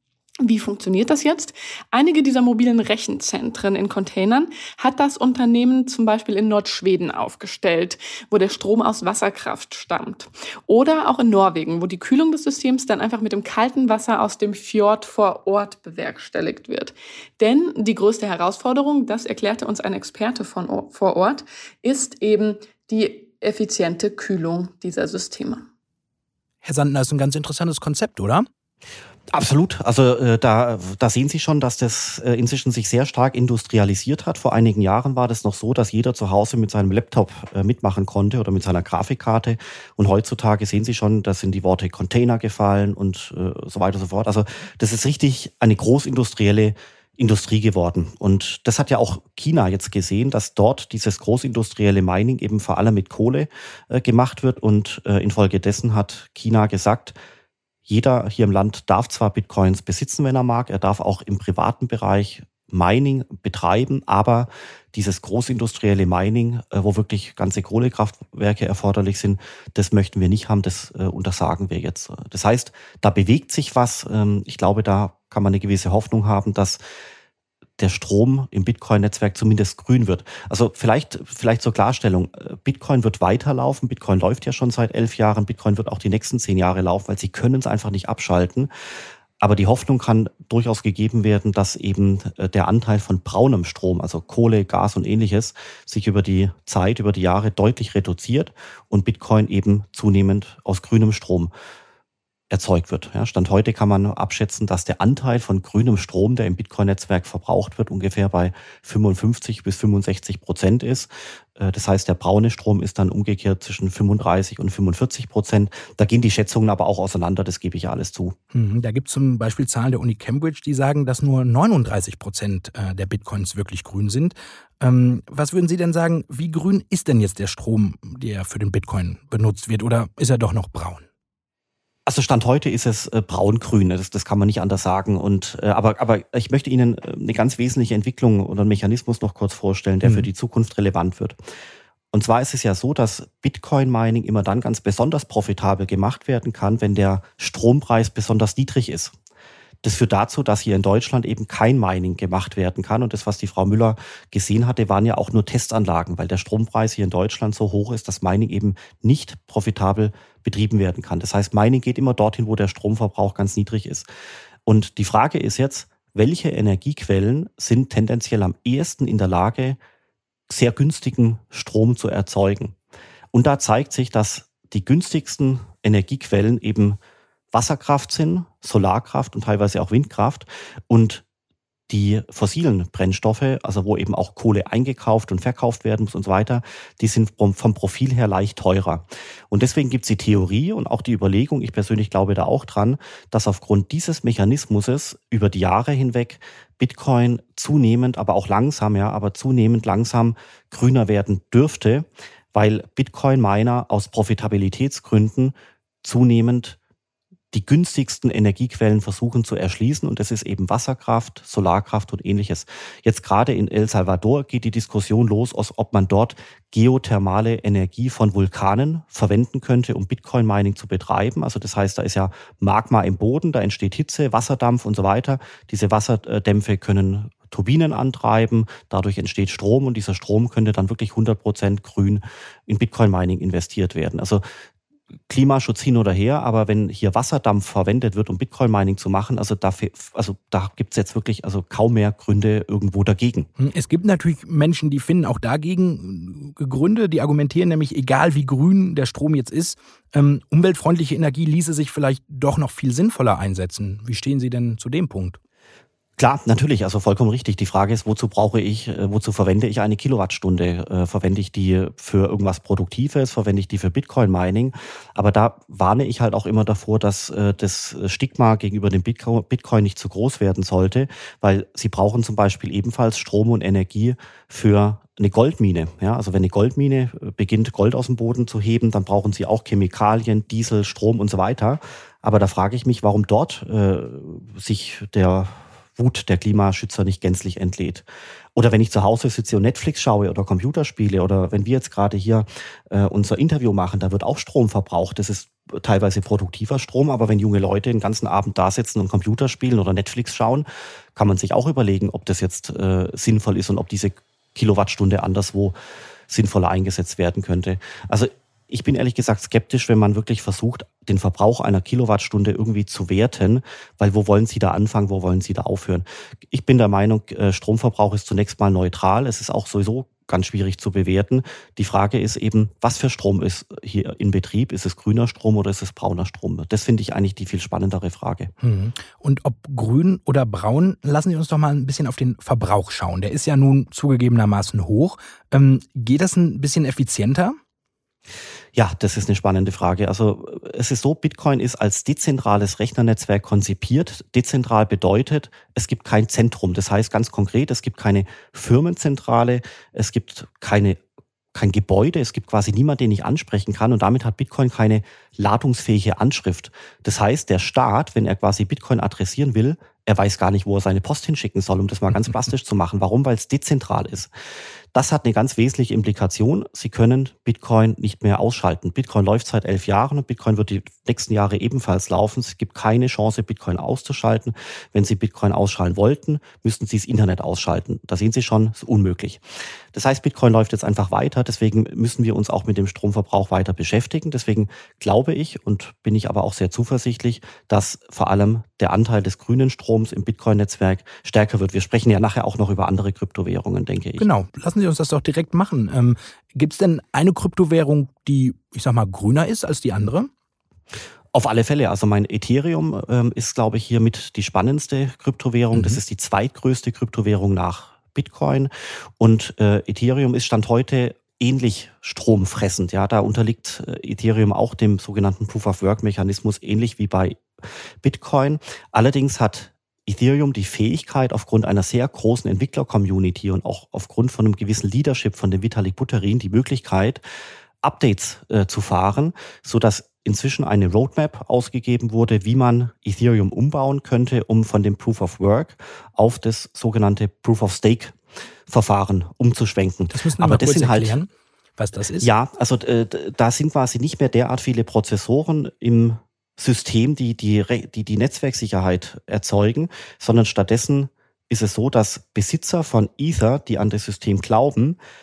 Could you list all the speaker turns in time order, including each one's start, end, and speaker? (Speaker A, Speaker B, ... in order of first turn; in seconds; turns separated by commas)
Speaker A: 0.4-25.6, Speaker B: 26.6-28.5, Speaker C: 29.3-57.1, Speaker C: 57.9-76.8, Speaker C: 77.8-88.7, Speaker C: 89.4-101.5, Speaker C: 102.5-118.3, Speaker B: 118.5-131.1, Speaker C: 132.1-141.4, Speaker B: 140.0-140.3, Speaker C: 142.1-149.1, Speaker C: 149.8-164.1, Speaker C: 164.7-169.8, Speaker C: 170.5-172.7, Speaker C: 173.3-177.0, Speaker C: 177.5-181.2, Speaker C: 181.9-206.8, Speaker C: 207.5-234.4, Speaker C: 235.3-243.5, Speaker B: 243.6-255.4, Speaker C: 256.2-305.7, Speaker C: 306.3-328.5, Speaker B: 328.6-337.6, Speaker C: 338.7-351.0, Speaker C: 351.5-364.3, Speaker C: 364.9-379.4, Speaker C: 379.9-394.3, Speaker B: 394.2-400.3, Speaker C: 401.3-417.4, Speaker B: 405.7-406.0, Speaker C: 418.0-427.2, Speaker C: 427.8-438.1, Speaker C: 438.7-441.2, Speaker B: 440.1-442.3, Speaker C: 442.2-455.0